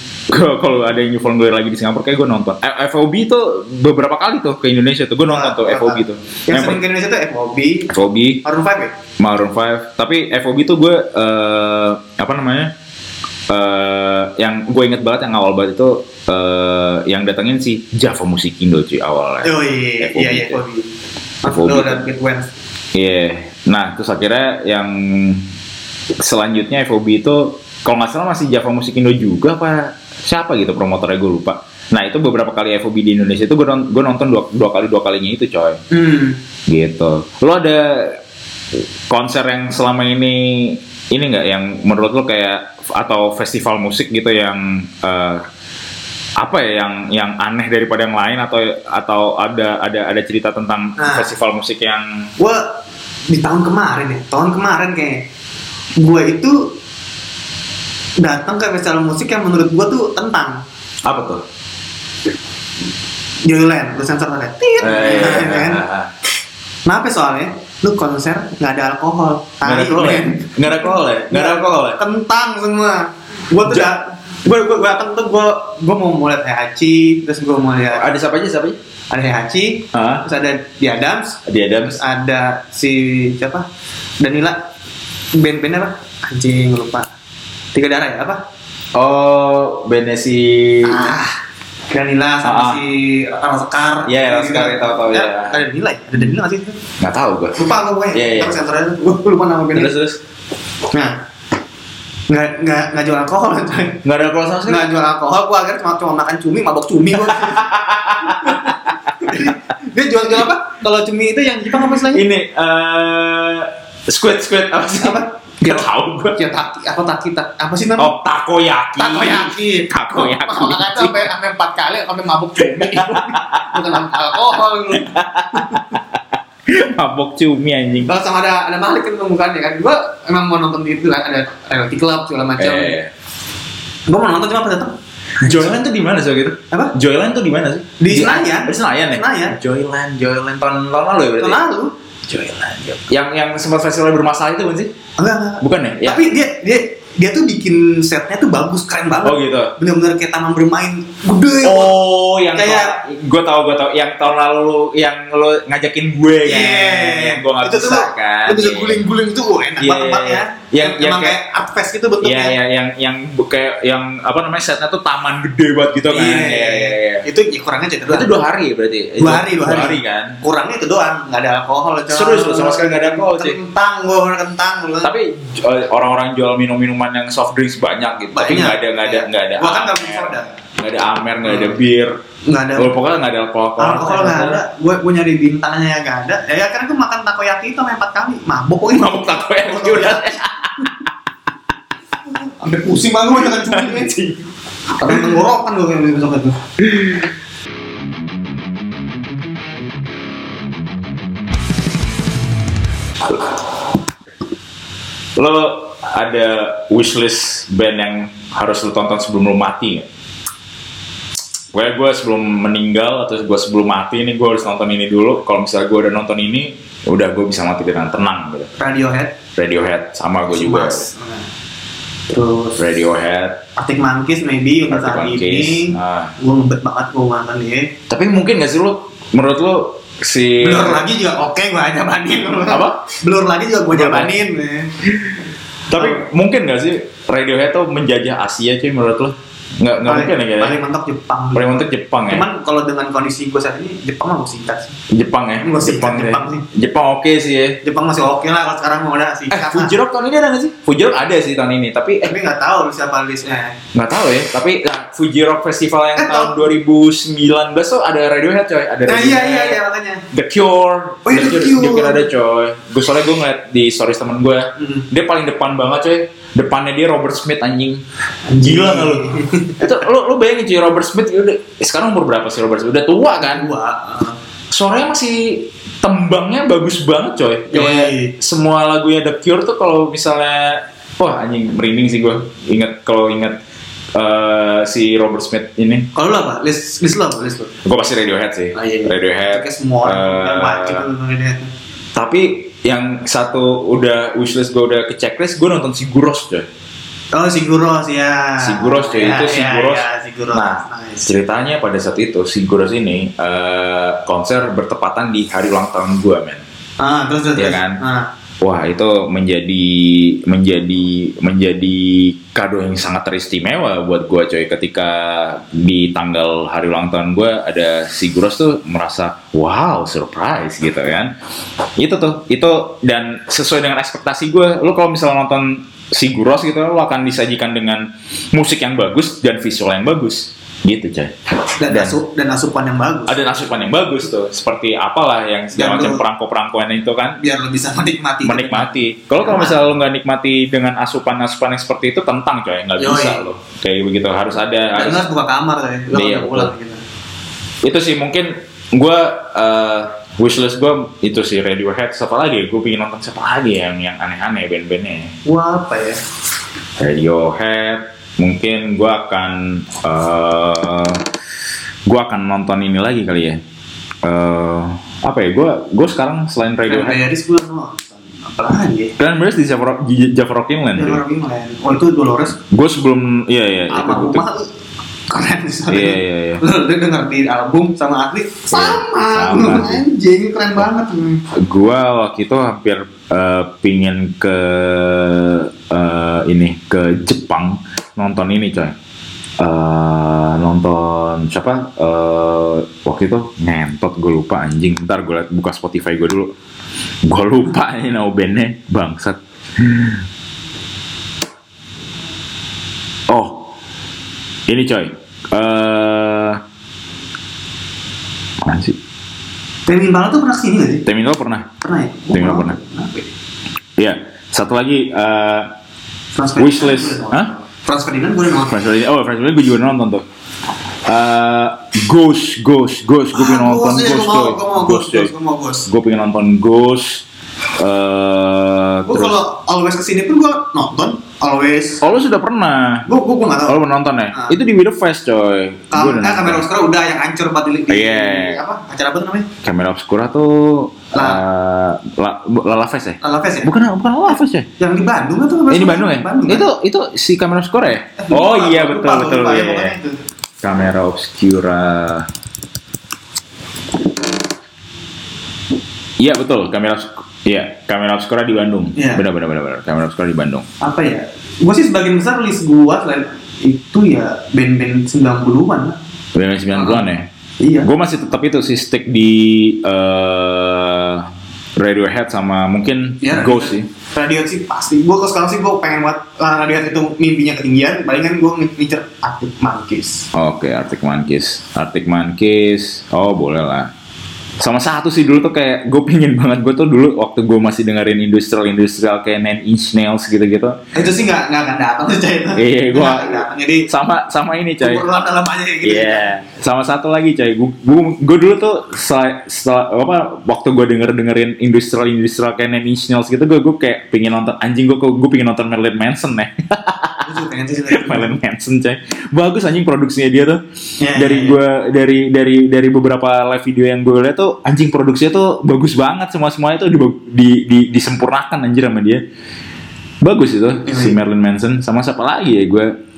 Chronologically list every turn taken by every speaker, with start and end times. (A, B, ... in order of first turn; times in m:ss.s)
0:00.3-0:06.8 A
0:05.3-0:07.9 B
0:07.9-0:08.4 A
0:08.4-0:09.0 B
0:09.2-0:12.7 A
0:13.5-0:20.6 A
0:19.4-0:20.9 B
0:21.4-0:22.5 B
0:21.4-0:22.0 A
0:22.9-0:25.5 A
0:26.2-0:35.8 A
0:35.9-0:36.4 B
0:36.7-0:38.2 A
0:39.1-0:45.4 A
0:46.4-0:52.3 A
0:51.0-0:51.3 B
0:52.4-0:55.3 B
0:56.0-0:56.7 B
0:58.2-1:00.6 B
1:01.0-1:01.4 A
1:03.4-1:05.8 B
1:04.8-1:06.1 A
1:06.8-1:18.1 B
1:09.6-1:12.0 A
1:13.6-1:13.9 A
1:17.9-1:18.8 A
1:19.1-1:23.7 B
1:19.9-1:20.2 A
1:21.4-1:22.0 A
1:24.2-1:24.7 B
1:25.3-1:27.1 B
1:27.7-1:28.4 B
1:28.9-1:31.1 A
1:30.8-1:31.4 B
1:31.9-1:36.8 B
1:32.4-1:32.8 A
1:34.0-1:35.6 A
1:37.0-1:37.6 A
1:37.6-1:39.9 B
1:38.1-1:38.6 A
1:39.7-1:40.2 A
1:42.3-1:44.0 B
1:44.0-1:44.9 A
1:44.7-1:52.2 B
1:47.2-1:49.4 A
1:51.9-1:56.4 A
1:54.8-1:58.1 B
1:58.0-2:01.3 A
1:59.0-2:05.8 B
2:02.6-2:04.1 A
2:04.9-2:08.1 A
2:08.0-2:13.0 B
2:12.6-2:13.1 A
2:14.1-2:15.8 B
2:15.4-2:21.6 A
2:18.0-2:19.6 B
2:21.4-2:21.9 B
2:22.3-2:24.9 A
2:25.2-2:32.0 B
2:25.6-2:26.2 A
2:29.2-2:29.7 A
2:31.6-2:39.0 A
2:32.5-2:33.0 B
2:36.4-2:42.6 B
2:39.8-2:41.4 A
2:42.2-2:47.2 A
2:46.1-2:48.3 B
2:48.1-2:50.4 A
2:49.2-2:55.1 B
2:52.1-2:53.6 A
2:55.0-3:02.1 A
2:58.3-3:00.5 B
3:01.4-3:01.8 B
3:02.4-3:02.9 B
3:02.7-3:04.6 A
3:03.8-3:10.9 B
3:08.9-3:10.9 A
3:12.4-3:14.3 B
3:13.5-3:14.3 A
3:14.9-3:16.6 B
3:25.4-3:30.1 A
3:31.7-3:38.7 A
3:38.8-3:39.4 B
3:39.6-3:41.0 A
3:40.5-3:41.4 B
3:42.3-3:42.8 B
3:42.8-3:43.6 A
3:43.8-3:47.9 B
3:44.9-3:46.3 A
3:48.1-3:51.0 A
3:50.6-3:54.9 B
3:52.7-3:53.0 A
3:53.9-3:54.3 A
3:55.9-4:00.8 A
3:56.0-3:56.2 B
4:00.0-4:05.0 B
4:01.5-4:02.4 A
4:05.1-4:07.8 A
4:05.6-4:06.6 B
4:07.8-4:09.9 B
4:09.5-4:12.3 A
4:12.2-4:13.8 B
4:13.9-4:19.8 A
4:16.2-4:16.6 B
4:19.0-4:20.2 B
4:20.3-4:28.0 A
4:21.2-4:22.2 B
4:24.8-4:25.0 B
4:28.5-4:29.9 B
4:28.6-4:33.7 A
4:33.4-4:34.4 B
4:34.7-4:43.6 A
4:37.7-4:38.3 B
4:44.1-4:46.1 A
4:46.1-4:47.7 B
4:47.8-4:51.0 A
4:48.7-4:51.7 B
4:52.1-4:56.7 A
4:57.3-5:01.3 B
4:58.6-5:06.6 A
5:07.0-5:08.3 B
5:07.6-5:08.0 A
5:08.6-5:21.3 A
5:22.0-5:31.3 A
5:31.8-5:33.4 B
5:31.8-5:32.2 A
5:33.3-5:37.4 A
5:35.7-5:36.2 B
5:37.4-5:39.8 B
5:38.4-5:45.2 A
5:43.0-5:43.4 B
5:44.9-5:47.0 B
5:46.1-5:46.7 A
5:47.8-5:55.3 A
5:55.4-5:56.2 B
5:57.0-6:01.2 A
6:02.1-6:03.6 A
6:04.2-6:07.2 A
6:06.9-6:09.2 B
6:09.2-6:11.2 A
6:10.9-6:12.6 B
6:12.6-6:14.4 A
6:13.9-6:14.7 B
6:15.3-6:21.4 B
6:15.9-6:16.6 A
6:18.7-6:20.0 A
6:21.5-6:29.0 A
6:29.6-6:36.5 A
6:37.2-6:40.2 A
6:43.3-6:43.7 A
6:44.7-6:46.6 A
6:48.6-6:49.0 A
6:49.9-6:51.0 B
6:51.0-6:51.7 A
6:51.8-6:53.3 B
6:52.3-6:52.8 A
6:54.0-6:55.7 A
6:56.3-6:58.8 B
6:56.6-6:57.5 A
6:58.7-7:00.2 A
7:01.0-7:05.3 A
7:03.3-7:05.9 B
7:05.8-7:07.2 A
7:07.8-7:09.4 A
7:09.0-7:12.0 B
7:12.0-7:13.0 A
7:13.0-7:13.8 B
7:13.6-7:16.6 A
7:15.9-7:19.5 B
7:17.9-7:18.6 A
7:19.6-7:24.7 A
7:21.1-7:21.4 B
7:23.2-7:23.7 B
7:24.8-7:26.7 B
7:25.7-7:30.0 A
7:28.2-7:30.2 B
7:30.6-7:32.3 A
7:36.2-7:40.7 A
7:39.0-7:39.2 B
7:40.8-7:46.0 B
7:46.3-7:47.3 A
7:46.7-7:47.0 B
7:47.6-7:47.9 B
7:47.8-7:53.9 A
7:53.2-8:00.3 B
8:00.3-8:03.9 A
8:04.6-8:10.8 A
8:10.9-8:13.9 B
8:12.5-8:15.0 A
8:14.8-8:16.3 B
8:15.8-8:27.4 A
8:27.2-8:28.4 B
8:27.9-8:30.6 A
8:31.0-8:31.6 B
8:31.1-8:39.2 A
8:40.2-8:42.9 A
8:40.8-8:41.2 B